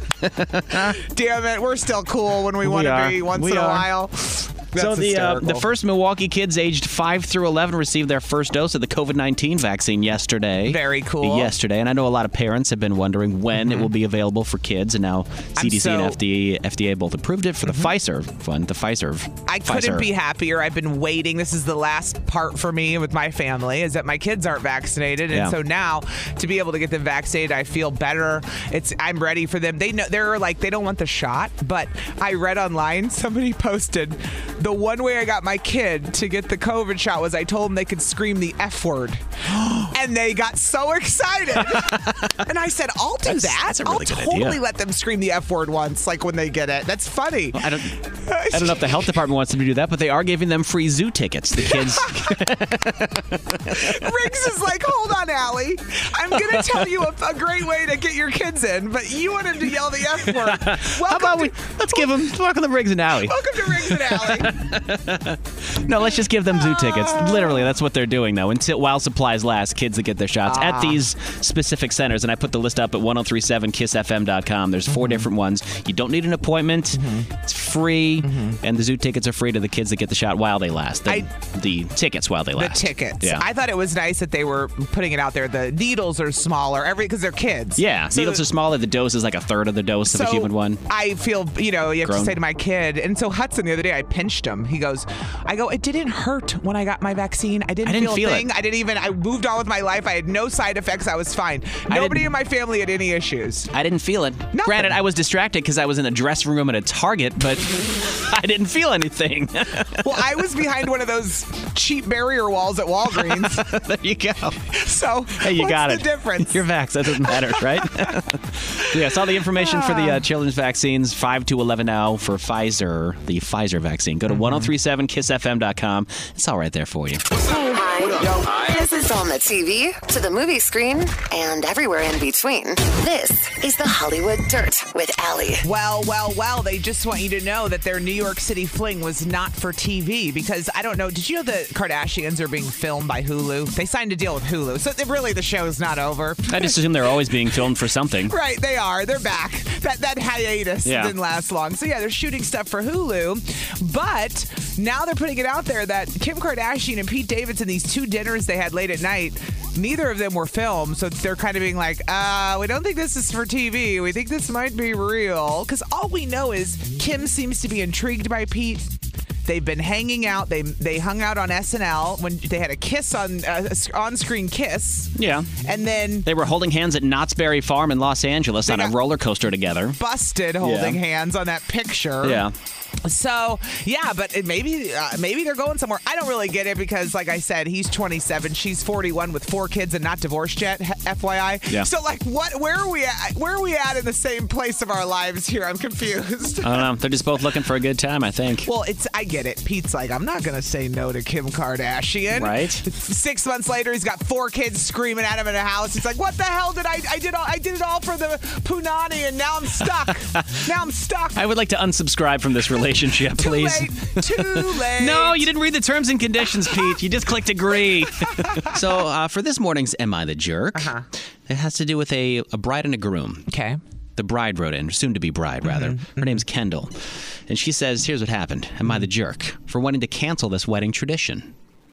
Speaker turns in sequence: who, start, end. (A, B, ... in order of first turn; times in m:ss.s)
0:00.2-0:01.0 A
0:01.0-0:05.7 B
0:02.6-0:03.9 A
0:04.7-0:20.1 A
0:10.7-0:11.5 B
0:13.6-0:13.9 B
0:15.6-0:16.2 B
0:17.6-0:17.9 B
0:19.5-0:39.2 B
0:25.3-0:25.6 A
0:39.5-0:39.9 A
0:39.8-0:47.7 B
0:41.6-0:42.4 A
0:43.2-0:44.6 A
0:47.6-0:54.1 A
0:48.2-0:49.2 B
0:51.6-0:52.3 B
0:53.7-1:02.1 B
0:56.5-0:56.8 A
1:00.4-1:23.4 A
1:03.2-1:04.6 B
1:06.6-1:07.6 B
1:10.5-1:11.0 B
1:14.9-1:15.2 B
1:16.9-1:17.3 B
1:18.2-1:18.6 B
1:22.6-1:28.4 B
1:27.8-1:30.8 A
1:30.1-1:43.7 B
1:32.0-1:32.4 A
1:37.8-1:38.5 A
1:41.9-1:42.3 A
1:43.7-1:50.2 A
1:44.5-1:45.0 B
1:50.0-1:53.7 B
1:53.2-1:54.8 A
1:54.7-1:58.1 B
1:55.4-2:07.2 A
1:59.1-2:00.2 B
2:04.3-2:04.7 B
2:07.5-2:15.6 C
2:15.6-2:26.8 B
2:26.5-2:28.3 A
2:28.3-2:48.9 B
2:30.8-2:31.1 A
2:49.5-2:56.3 B
2:55.2-2:55.6 A
2:56.2-3:00.0 A
2:58.6-2:59.0 B
3:00.0-3:02.4 B
3:00.6-3:01.0 A
3:02.2-3:02.5 A
3:03.0-3:16.9 B
3:16.6-3:18.7 A
3:18.6-3:31.4 B
3:22.3-3:22.8 A
3:30.3-3:30.6 A
3:31.4-3:40.9 A
3:33.3-3:35.5 B
3:40.8-3:41.0 B
3:41.5-3:43.5 A
3:43.5-3:43.8 B
3:44.2-3:51.5 A
3:45.6-3:46.4 B